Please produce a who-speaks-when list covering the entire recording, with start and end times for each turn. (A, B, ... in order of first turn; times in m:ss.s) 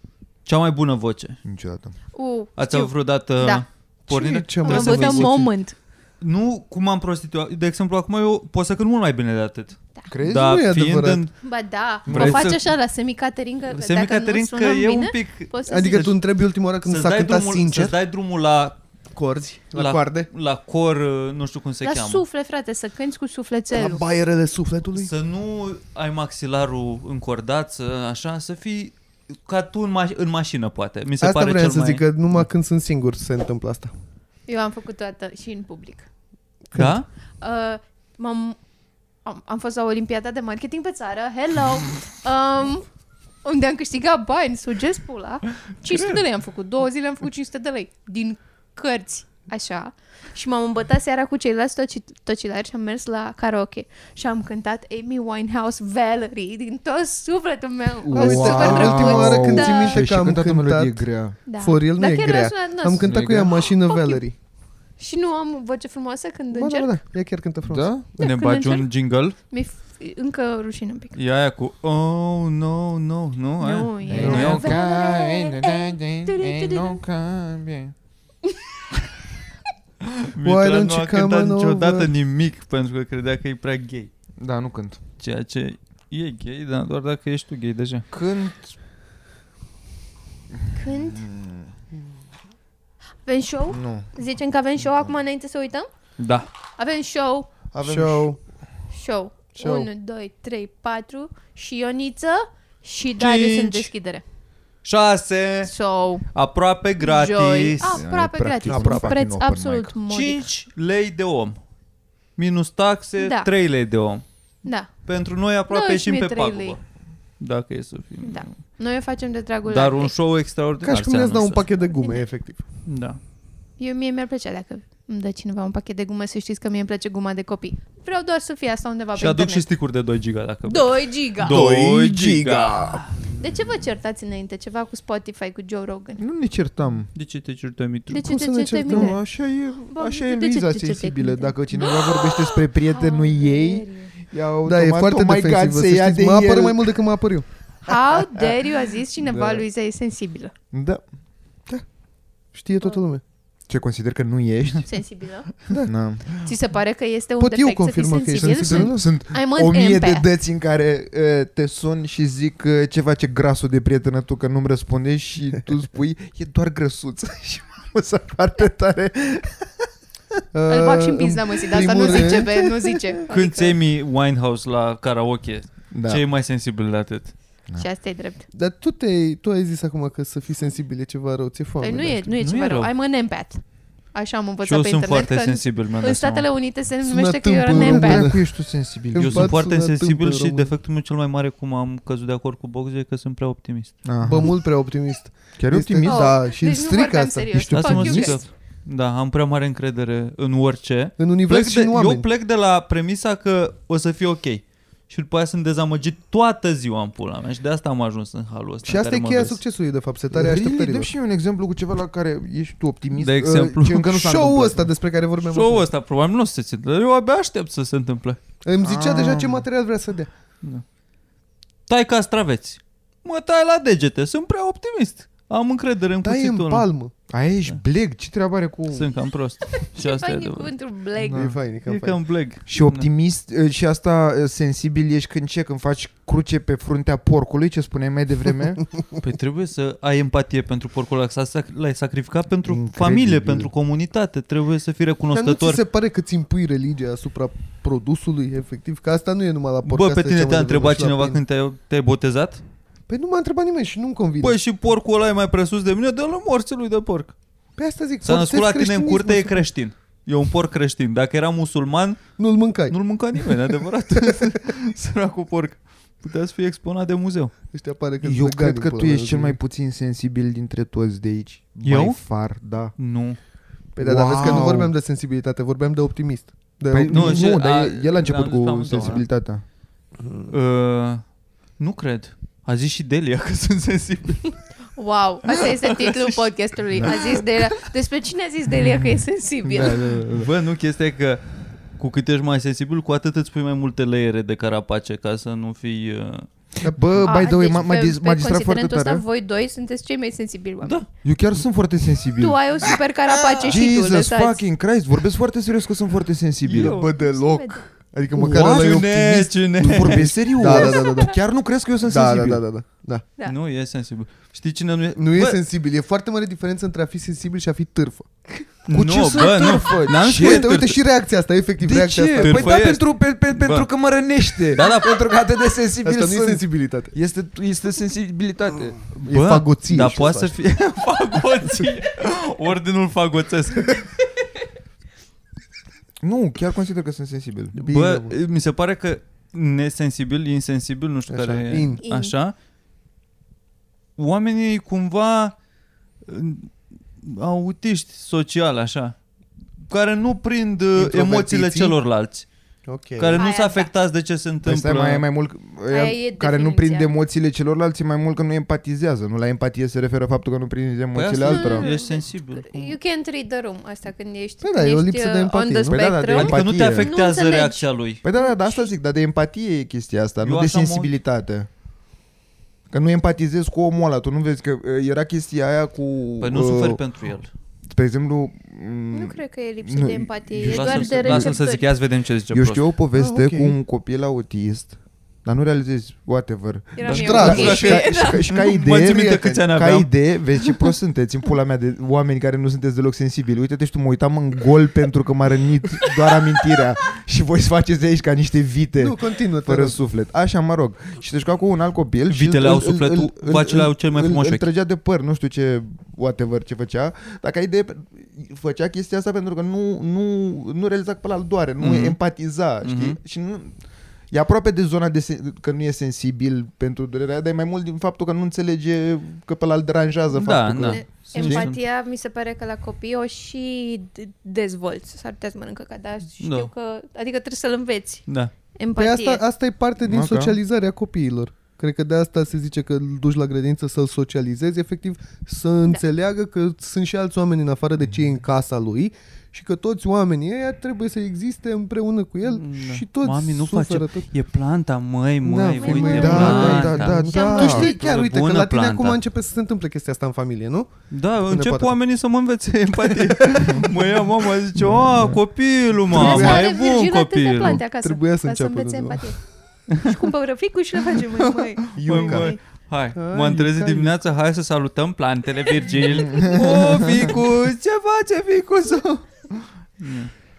0:00.4-0:01.4 A
0:01.4-0:01.9 B
0:02.1-0:03.6 C
0:02.6-0:05.5 A
0:04.1-0:05.4 D
0:04.6-0:05.8 C
0:06.2-0:11.3 A
0:10.1-0:10.4 B
0:10.2-0:11.3 D
0:11.4-0:16.1 C
0:12.1-0:12.6 B
0:12.1-0:12.7 A
0:13.7-0:16.2 A
0:15.7-0:18.0 D
0:16.8-0:18.8 A
0:19.2-0:20.3 D
0:19.7-0:22.2 A
0:21.8-0:24.0 C
0:23.7-0:25.1 D
0:24.9-0:32.5 A
0:31.2-0:33.9 D
0:34.5-0:36.1 C
0:36.7-0:37.0 D
0:36.8-0:37.1 A
0:37.4-0:38.6 C
0:39.2-0:42.9 C
0:43.4-1:00.0 C
0:45.9-0:46.2 A
0:58.0-1:01.4 B
0:58.1-1:01.0 D
1:01.5-1:03.1 C
1:01.6-1:04.4 D
1:03.0-1:03.6 A
1:03.9-1:04.2 C
1:05.0-1:06.9 C
1:06.5-1:07.9 D
1:07.7-1:08.1 B
1:08.2-1:08.9 C
1:08.2-1:09.4 A
1:09.5-1:11.1 C
1:11.2-1:14.8 A
1:13.6-1:17.0 C
1:14.0-1:17.9 B
1:14.1-1:14.6 D
1:20.2-1:24.1 A
1:20.4-1:22.1 D
1:24.4-1:25.0 B
1:25.2-1:28.0 A
1:28.1-1:28.8 B
1:30.7-1:31.3 C
1:30.8-1:31.7 B
1:33.2-1:35.9 C
1:33.7-1:34.1 B
1:34.8-1:35.1 B
1:36.2-1:36.5 A
1:36.8-1:37.5 C
1:37.7-1:38.3 B
1:37.8-1:38.4 D
1:38.9-1:44.2 C
1:39.6-1:39.9 D
1:43.2-1:43.9 A
1:44.8-1:45.7 A
1:45.6-1:46.2 C
1:46.3-1:48.1 A
1:47.0-1:50.5 C
1:47.9-1:49.9 B
1:48.6-1:49.2 A
1:50.1-1:51.6 A
1:52.4-1:54.2 A
1:53.2-1:53.5 C
1:54.6-1:54.9 C
1:55.0-1:56.8 A
1:55.7-1:56.8 C
1:57.4-1:58.5 A
1:58.2-2:00.1 C
1:59.7-2:01.7 A
2:00.8-2:02.6 D
2:01.9-2:02.2 C
2:02.9-2:03.2 A
2:03.8-2:09.7 C
2:09.2-2:13.2 A
2:10.7-2:11.6 C
2:11.4-2:13.0 D
2:13.4-2:16.2 C
2:16.2-2:17.1 B
2:17.1-2:18.3 A
2:18.1-2:19.2 C
2:18.2-2:19.2 D
2:18.9-2:26.9 B
2:19.9-2:24.1 C
2:24.6-2:27.5 D
2:27.9-2:30.5 C
2:27.9-2:28.6 B
2:29.2-2:29.7 B
2:30.7-2:31.0 B
2:32.5-2:33.2 D
2:33.7-2:34.9 B
2:34.8-2:35.5 C
2:35.8-2:36.4 B
2:36.4-2:40.2 C
2:37.4-2:39.0 D
2:38.4-2:49.9 B
2:50.5-2:52.7 D
2:50.7-2:53.8 C
2:53.3-2:57.4 A
2:55.9-2:56.2 B
2:57.8-2:58.5 C
2:58.5-3:02.3 D
3:01.8-3:03.6 C
3:02.4-3:02.9 A
3:04.1-3:08.3 C
3:04.6-3:06.5 A
3:07.0-3:08.5 D
3:07.7-3:09.6 B
3:09.1-3:10.7 D
3:09.2-3:13.9 A
3:14.0-3:14.5 B
3:14.2-3:17.9 D
3:15.6-3:16.4 B
3:16.0-3:18.4 C
3:17.6-3:18.4 B
3:17.8-3:29.6 A
3:21.2-3:22.3 D
3:28.8-3:31.1 D
3:30.3-3:34.9 B
3:33.2-3:34.1 A
3:34.1-3:35.9 D
3:35.4-3:38.4 A
3:38.6-3:40.3 D
3:38.8-3:39.7 B
3:41.9-3:46.9 A
3:46.2-3:47.1 D
3:47.3-3:49.1 B
3:48.9-3:50.7 A
3:49.9-3:51.4 C
3:51.3-3:51.6 B
3:51.3-3:52.2 D
3:51.8-3:53.1 A
3:52.7-3:58.9 B
3:59.2-4:05.8 A
4:02.7-4:03.7 B
4:05.3-4:11.4 D
4:09.8-4:12.6 A
4:13.1-4:14.6 D
4:14.4-4:17.4 A
4:17.8-4:19.6 D
4:18.2-4:22.3 A
4:22.4-4:23.0 D
4:22.9-4:27.5 A
4:27.7-4:29.6 D
4:28.2-4:32.9 B
4:31.8-4:32.2 A
4:33.0-4:33.4 A
4:34.0-4:37.5 D
4:34.0-4:34.9 B
4:34.3-4:34.7 A
4:36.9-4:39.6 B
4:37.1-4:39.2 A
4:40.2-4:40.5 D
4:40.5-4:41.2 A
4:41.8-4:44.6 A
4:45.0-4:50.0 C
4:45.5-4:46.4 A
4:47.0-4:47.7 A
4:49.6-4:50.5 B
4:50.3-4:51.4 A
4:52.0-4:56.5 A
4:56.8-4:57.4 D
4:56.9-4:59.2 B
4:57.2-5:01.0 C
5:00.8-5:01.1 A
5:01.2-5:02.6 B
5:02.4-5:04.6 C
5:03.6-5:07.0 B
5:06.6-5:07.0 A
5:06.7-5:11.4 D
5:06.8-5:07.9 C
5:08.3-5:12.6 B
5:08.6-5:10.8 A
5:12.1-5:13.2 D
5:13.4-5:15.6 A
5:15.2-5:18.7 D
5:18.9-5:21.0 A
5:18.9-5:20.7 B
5:20.2-5:22.7 D
5:21.8-5:29.0 B
5:22.4-5:23.9 A
5:24.7-5:25.2 A
5:26.0-5:27.1 D
5:29.2-5:34.2 A
5:29.2-5:30.6 D
5:36.2-5:37.8 B
5:37.8-5:42.5 A
5:37.8-5:38.4 D
5:41.3-5:42.0 D
5:42.0-5:42.4 C
5:44.2-5:45.6 A
5:46.3-5:49.2 A
5:49.8-5:52.5 A
5:51.0-5:52.0 D
5:52.9-5:53.4 D
5:53.2-5:55.2 A
5:53.4-5:53.9 C
5:54.6-6:01.9 B
5:55.9-5:57.1 C
6:01.2-6:02.7 A
6:01.5-6:08.9 C
6:04.6-6:06.3 D
6:05.9-6:07.2 B
6:06.3-6:08.2 A
6:08.2-6:11.7 B
6:10.4-6:11.1 A
6:12.9-6:17.0 B
6:16.4-6:17.5 A
6:17.9-6:21.6 B
6:19.1-6:21.8 C
6:20.6-6:22.8 A
6:22.5-6:53.8 B
6:23.2-6:23.8 D
6:27.0-6:28.4 C
6:27.1-6:29.7 D
6:27.1-6:30.1 A
6:39.0-6:40.0 D
6:42.3-6:44.7 A
6:51.8-6:52.2 A
6:52.8-6:53.2 A
6:54.3-7:01.7 B
7:00.3-7:01.8 A
7:00.8-7:09.4 C
7:06.4-7:06.7 A
7:08.3-7:08.5 A
7:09.0-7:24.3 D
7:10.1-7:10.6 B
7:22.5-7:29.2 A
7:25.4-7:27.9 B
7:25.8-7:28.0 C
7:25.9-7:30.9 D
7:31.1-7:37.8 A
7:31.5-7:32.0 D
7:33.0-7:34.3 D
7:34.8-7:35.4 B
7:36.1-7:36.4 B
7:36.1-7:39.4 C
7:36.2-7:36.7 D
7:38.0-7:39.3 D
7:39.9-7:40.2 A
7:40.0-7:42.6 C
7:41.4-7:50.3 A
7:42.0-7:42.5 B
7:43.2-7:44.1 D
7:45.9-7:47.0 C
7:46.3-7:47.3 B